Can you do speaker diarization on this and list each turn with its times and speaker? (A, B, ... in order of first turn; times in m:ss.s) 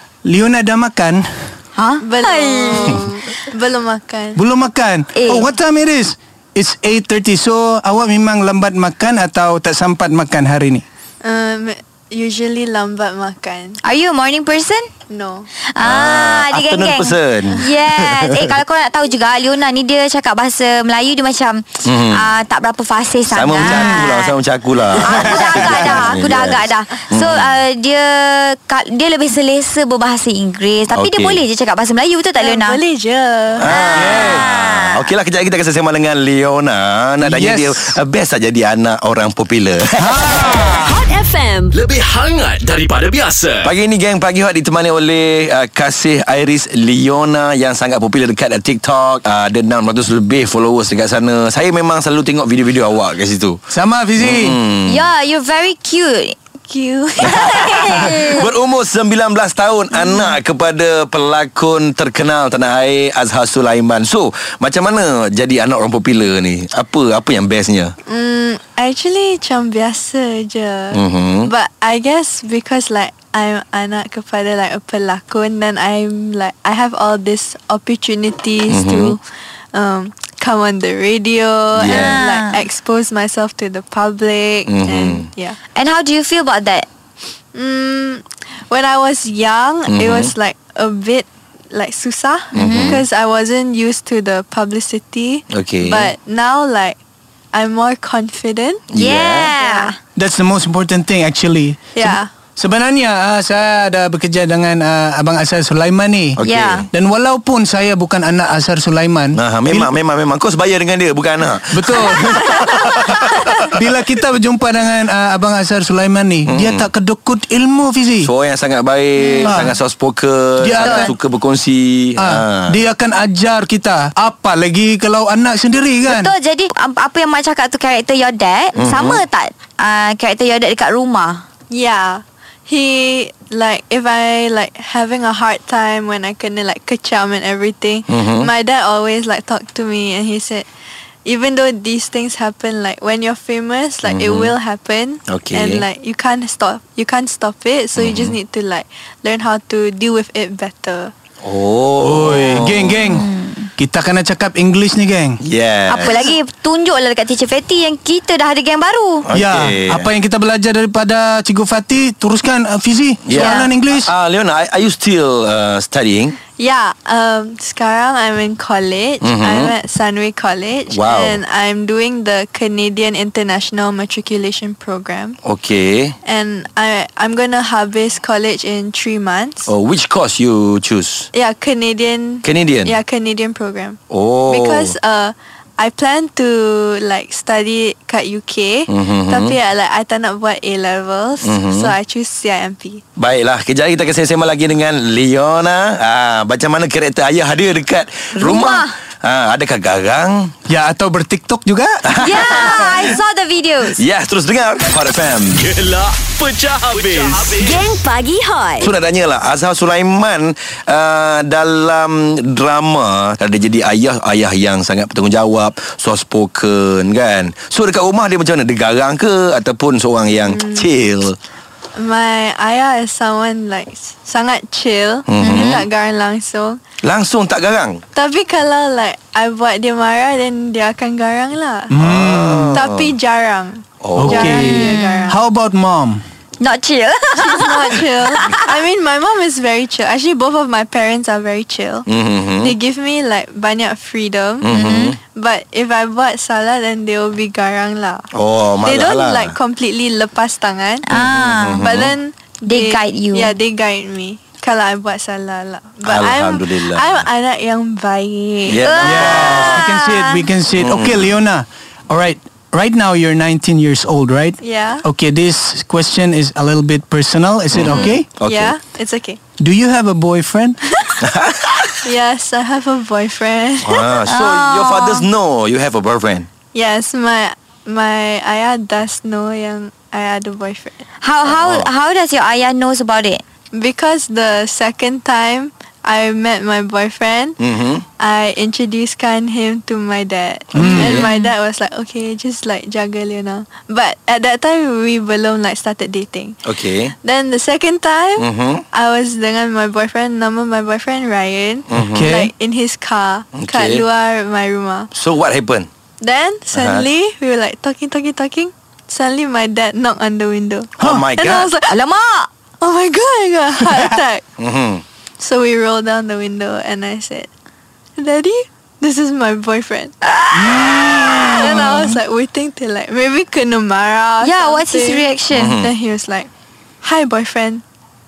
0:00.2-0:01.3 A
0:01.8-0:03.0 B
0:02.0-0:04.4 C
0:04.4-0:10.8 A
0:05.2-0:05.5 B
0:11.2-0:13.8 C
0:13.8-0:14.9 B
0:15.1-0:15.5 C
0:15.7-0:24.4 B
0:15.8-0:18.5 D
0:21.8-0:22.3 D
0:23.3-0:27.6 D
0:23.6-0:24.1 A
0:25.0-0:32.8 B
0:25.1-0:26.1 A
0:30.9-0:31.4 D
0:32.4-0:33.7 C
0:33.6-0:40.6 D
0:33.7-0:35.0 B
0:34.0-0:34.5 A
0:37.2-0:38.0 A
0:40.0-0:41.0 A
0:40.7-0:41.8 E
0:42.0-0:43.6 F
0:43.6-0:53.6 D
0:53.7-0:54.6 A
0:54.2-0:55.1 D
0:54.9-0:56.4 B
0:56.7-0:58.3 C
0:57.2-1:08.0 D
0:57.3-0:58.5 B
1:00.0-1:00.3 C
1:08.0-1:19.2 C
1:10.9-1:11.5 D
1:18.7-1:19.2 D
1:19.7-1:25.6 C
1:21.7-1:22.2 D
1:21.8-1:22.6 B
1:24.7-1:25.3 D
1:25.8-1:26.9 B
1:27.5-1:37.0 C
1:29.9-1:30.3 D
1:32.5-1:33.0 D
1:32.6-1:33.0 B
1:35.5-1:36.1 D
1:37.5-1:38.8 C
1:38.9-1:39.5 D
1:39.0-1:40.0 B
1:39.5-1:39.9 C
1:40.2-1:46.4 A
1:42.0-1:42.3 C
1:46.4-1:46.8 D
1:46.4-1:46.9 B
1:46.9-1:49.9 A
1:49.4-1:53.7 D
1:51.7-1:53.2 A
1:52.3-1:53.0 B
1:53.7-1:58.3 A
1:56.5-1:56.9 D
1:58.2-2:02.8 D
1:59.2-1:59.6 B
1:59.4-1:59.8 A
2:00.6-2:01.1 A
2:00.8-2:01.1 B
2:02.2-2:06.3 A
2:06.1-2:11.4 B
2:08.8-2:09.2 D
2:11.7-2:20.7 C
2:18.1-2:18.5 D
2:21.3-2:31.1 C
2:24.0-2:24.6 D
2:25.3-2:25.9 D
2:28.0-2:28.4 D
2:31.4-2:33.2 D
2:32.0-2:35.4 A
2:33.1-2:33.7 B
2:35.4-2:36.3 D
2:35.9-2:39.3 B
2:39.3-2:40.1 D
2:39.3-2:44.1 A
2:43.3-2:46.4 D
2:43.3-2:43.7 B
2:46.5-2:55.4 C
2:49.2-2:49.8 D
2:50.9-2:51.4 D
2:55.4-2:56.2 D
2:56.2-2:59.7 C
2:59.7-3:01.3 D
3:01.3-3:13.0 C
3:02.4-3:03.0 D
3:04.1-3:05.0 D
3:08.9-3:09.6 D
3:11.4-3:12.0 D
3:13.2-3:20.5 D
3:18.4-3:18.9 B
3:20.7-3:22.0 A
3:22.1-3:23.2 D
3:22.2-3:24.0 B
3:24.0-3:25.7 D
3:25.8-3:27.6 F
3:27.1-3:27.5 D
3:27.5-3:28.9 E
3:28.8-3:41.4 D
3:40.4-3:40.9 C
3:42.0-3:46.8 C
3:45.3-3:45.9 D
3:45.4-3:45.8 B
3:47.0-3:48.0 D
3:48.2-3:52.0 C
3:51.9-3:52.8 A
3:52.0-3:53.1 D
3:52.7-3:55.4 C
3:54.0-3:54.6 D
3:54.2-3:56.2 A
3:54.6-3:55.4 B
3:56.6-3:58.7 B
3:57.4-4:02.1 C
4:02.1-4:02.8 D
4:02.6-4:04.7 C
4:04.6-4:05.2 D
4:04.7-4:05.2 B
4:05.3-4:08.3 C
4:08.3-4:09.6 D
4:08.8-4:11.1 C
4:11.1-4:11.9 B
4:11.1-4:12.1 D
4:11.8-4:19.1 C
4:12.7-4:13.5 B
4:16.0-4:17.3 D
4:18.6-4:19.8 D
4:18.7-4:20.5 B
4:19.0-4:28.3 A
4:20.8-4:21.4 D
4:24.6-4:25.0 C
4:27.7-4:28.8 D
4:27.9-4:29.4 C
4:29.6-4:30.8 A
4:30.9-4:31.2 C
4:31.2-4:32.0 D
4:32.0-4:34.2 C
4:33.8-4:36.5 D
4:34.3-4:35.3 B
4:36.7-4:41.0 C
4:41.2-4:43.4 B
4:41.4-4:41.9 D
4:43.7-4:47.6 C
4:47.6-4:48.0 D
4:48.2-5:05.1 C
4:50.7-4:51.3 A
4:50.8-4:51.3 D
4:51.2-4:51.5 B
4:56.6-4:57.1 D
4:58.4-4:58.8 D
5:01.9-5:02.3 D
5:02.0-5:02.5 A
5:03.5-5:04.1 D
5:05.1-5:05.9 D
5:06.2-5:11.9 C
5:06.7-5:07.0 D
5:11.0-5:11.3 A
5:11.0-5:11.7 D
5:11.9-5:12.5 B
5:12.8-5:14.4 C
5:13.8-5:14.1 A
5:14.6-5:15.0 D
5:15.4-5:17.5 C
5:18.2-5:20.3 C
5:20.3-5:21.6 B
5:20.5-5:22.2 A
5:21.4-5:26.5 C
5:24.4-5:25.8 B
5:25.5-5:25.9 D
5:27.0-5:27.8 C